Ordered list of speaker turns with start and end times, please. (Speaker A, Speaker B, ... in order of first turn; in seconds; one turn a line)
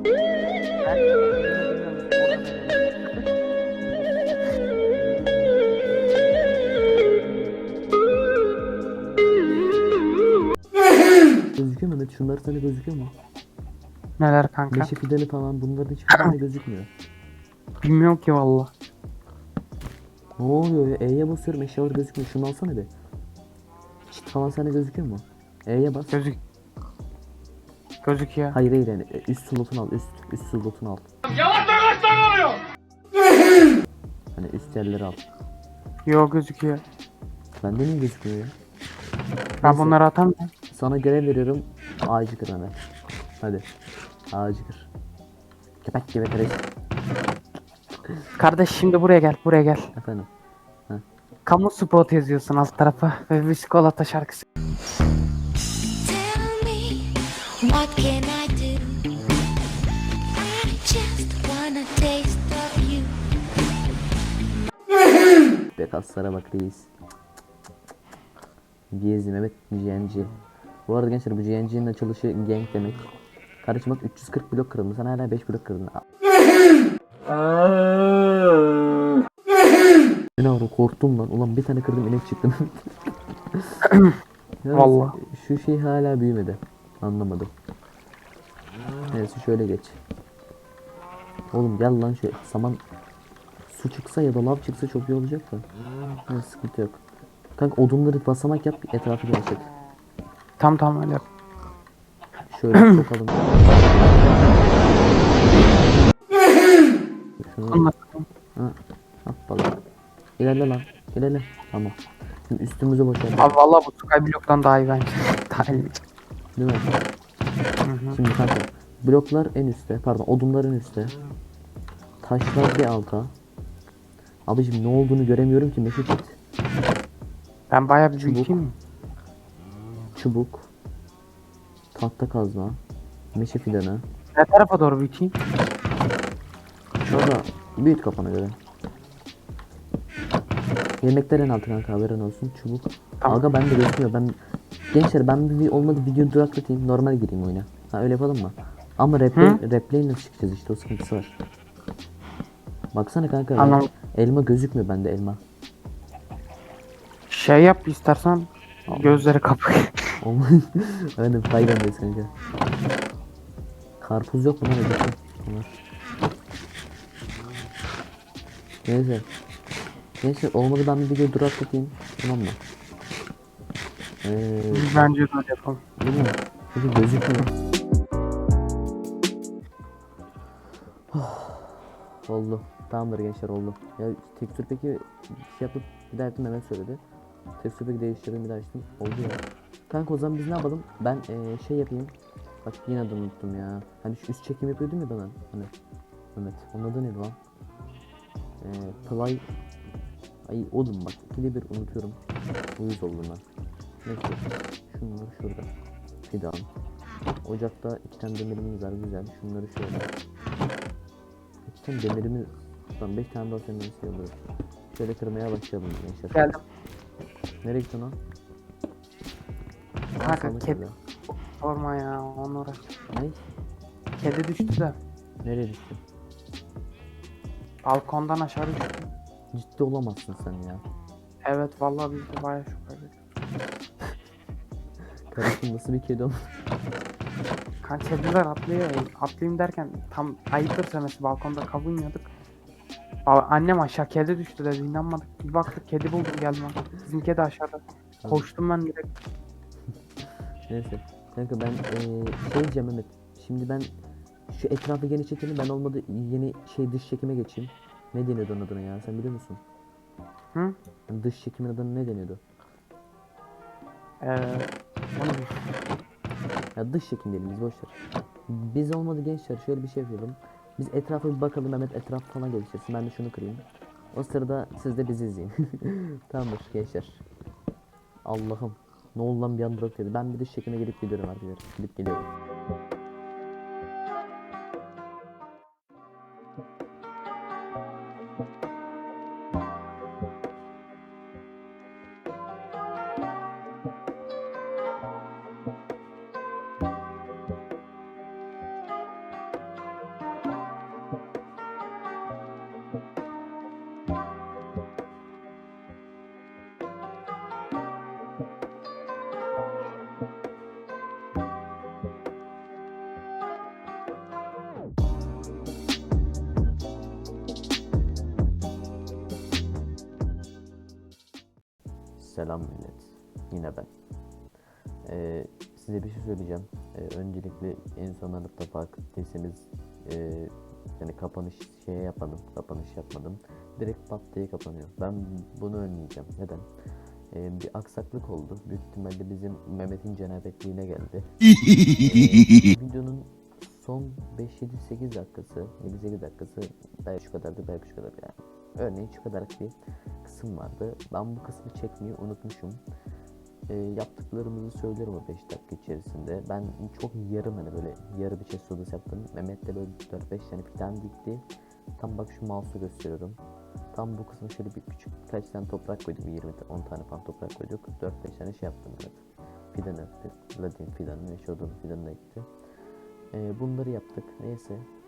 Speaker A: 0.8-2.9
Speaker A: 3.8-4.1
Speaker A: 5.1-5.4
Speaker A: 7.3-7.8
Speaker A: 9.1-9.8
Speaker B: 11.5-13.1
Speaker A: 14.2-14.9
Speaker B: 14.7-16.9
Speaker A: 17.8-18.7
Speaker B: 20.4-22.9
Speaker B: 24.1-26.2
Speaker A: 26.1-26.4
Speaker A: 28.0-28.6
Speaker B: 28.5-31.1
Speaker B: 34.3-35.2
Speaker A: 36.0-36.8
Speaker B: 37.6-38.5
Speaker B: 39.6-40.0
Speaker A: 39.6-40.5
Speaker B: 40.7-42.8
Speaker B: 43.4-43.7
Speaker B: 44.3-44.9
Speaker B: 45.8-46.7
Speaker A: 48.4-49.9
Speaker B: 49.9-50.3
Speaker A: 51.5-54.5
Speaker C: 56.0-59.1
Speaker C: 60.4-63.2
Speaker B: 65.8-66.9
Speaker B: 68.9-70.3
Speaker B: 70.9-73.1
Speaker B: 73.6-76.0
Speaker B: 80.4-82.9
Speaker A: 83.8-84.1
Speaker B: 84.6-87.5
Speaker A: 84.7-85.2
Speaker B: 89.1-90.0
Speaker B: 91.5-92.8
Speaker B: 93.7-95.7
Speaker B: 96.3-97.0
Speaker B: 97.6-99.7
Speaker A: 100.6-101.2
Speaker B: 102.5-105.8
Speaker B: 107.4-107.8
Speaker A: 107.7-108.2
Speaker B: 108.5-109.8
Speaker B: 110.4-113.6
Speaker A: 113.4-116.0
Speaker B: 116.6-116.9
Speaker A: 117.8-118.2
Speaker B: 118.1-121.2
Speaker B: 122.2-123.3
Speaker B: 124.5-126.4
Speaker A: 127.7-128.7
Speaker B: 128.2-128.5
Speaker B: 130.1-130.7
Speaker B: 131.9-132.8
Speaker B: 133.3-134.0
Speaker A: 134.3-135.3
Speaker B: 137.0-138.6
Speaker B: 141.0-144.3
Speaker B: 144.9-151.4
Speaker A: 149.3-149.6
Speaker B: 152.9-155.4
Speaker A: 153.6-153.9
Speaker A: 157.3-159.9
Speaker B: 158.9-159.3
Speaker B: 160.2-162.3
Speaker B: 164.0-165.7
Speaker B: 168.8-169.3
Speaker B: 170.2-172.6
Speaker B: 174.2-175.1
Speaker A: 174.7-175.8
Speaker B: 176.0-177.5
Speaker B: 181.1-187.0
Speaker B: 187.6-195.7
Speaker B: 196.3-197.4
Speaker B: 198.6-199.4
Speaker B: 200.5-202.2
Speaker B: 202.8-203.4
Speaker B: 204.0-205.7
Speaker B: 206.2-206.7
Speaker B: 207.4-210.1
Speaker B: 211.7-214.4
Speaker B: 214.9-216.6
Speaker A: 216.3-216.6
Speaker B: 217.6-218.2
Speaker B: 220.2-220.9
Speaker A: 220.2-222.8
Speaker B: 223.1-223.4
Speaker A: 224.2-224.9
Speaker B: 225.4-226.0
Speaker A: 227.8-229.1
Speaker B: 229.5-230.8
Speaker A: 231.4-233.1
Speaker B: 235.3-236.3
Speaker A: 237.8-242.3
Speaker A: 243.2-249.1
Speaker B: 250.7-253.9
Speaker B: 254.5-259.6
Speaker B: 261.1-262.4
Speaker A: 264.2-265.5
Speaker B: 266.7-268.0
Speaker B: 268.5-277.2
Speaker B: 278.2-282.3
Speaker B: 322.2-323.9
Speaker B: 325.0-336.7
Speaker B: 337.3-341.2
Speaker B: 341.8-352.8
Speaker B: 353.7-363.4
Speaker B: 363.9-372.5
Speaker B: 373.3-374.9